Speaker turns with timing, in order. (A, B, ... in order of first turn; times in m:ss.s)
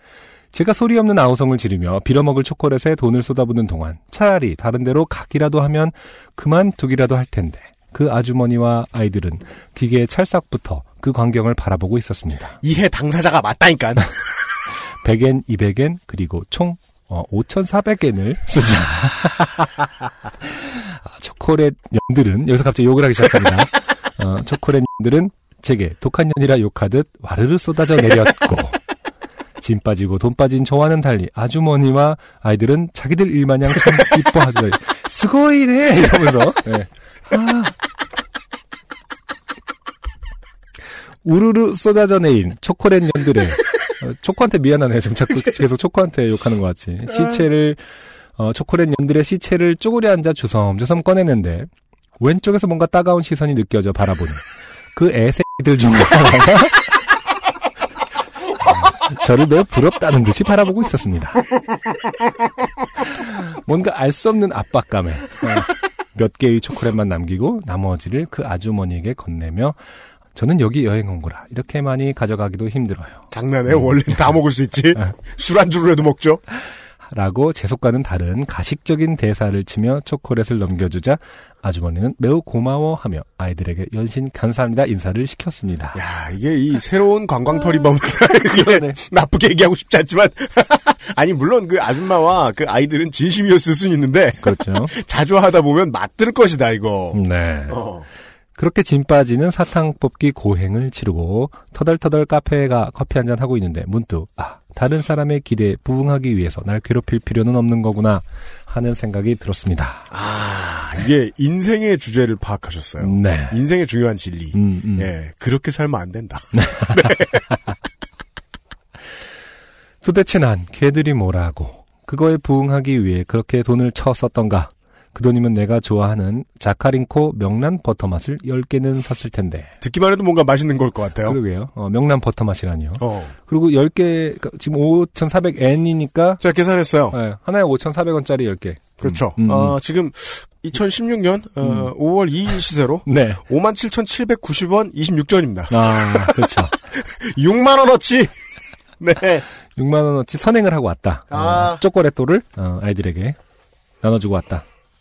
0:00.5-0:12.6 A
0:12.6-0:14.1 B
0:14.9-0:19.9 A
0:20.4-0:28.8 A
0:29.6-0:37.7 A
0:41.2-0:47.8 A
0:48.4-0:56.9 A
0:58.6-1:01.4 A
1:03.0-1:09.8 A
1:10.3-1:13.8 A
1:13.3-1:16.4 B
1:17.1-1:26.0 A
1:25.9-1:38.1 B
1:28.5-1:29.0 A
1:34.4-1:34.9 A
1:37.1-1:37.8 A
1:38.6-1:50.1 A
1:50.1-1:57.4 B
1:53.0-1:53.6 A
1:54.5-1:55.1 A
1:56.5-1:57.0 A
2:00.0-2:09.7 A
2:09.8-2:11.4 B
2:11.2-2:16.4 A
2:13.0-2:13.3 B
2:16.4-2:17.2 B
2:17.1-2:19.8 A
2:19.0-2:28.3 B
2:21.6-2:21.9 A
2:23.0-2:23.4 A
2:25.7-2:26.8 A
2:29.0-2:29.4 B
2:29.8-2:33.4 A
2:31.3-2:31.8 B
2:34.0-2:34.6 A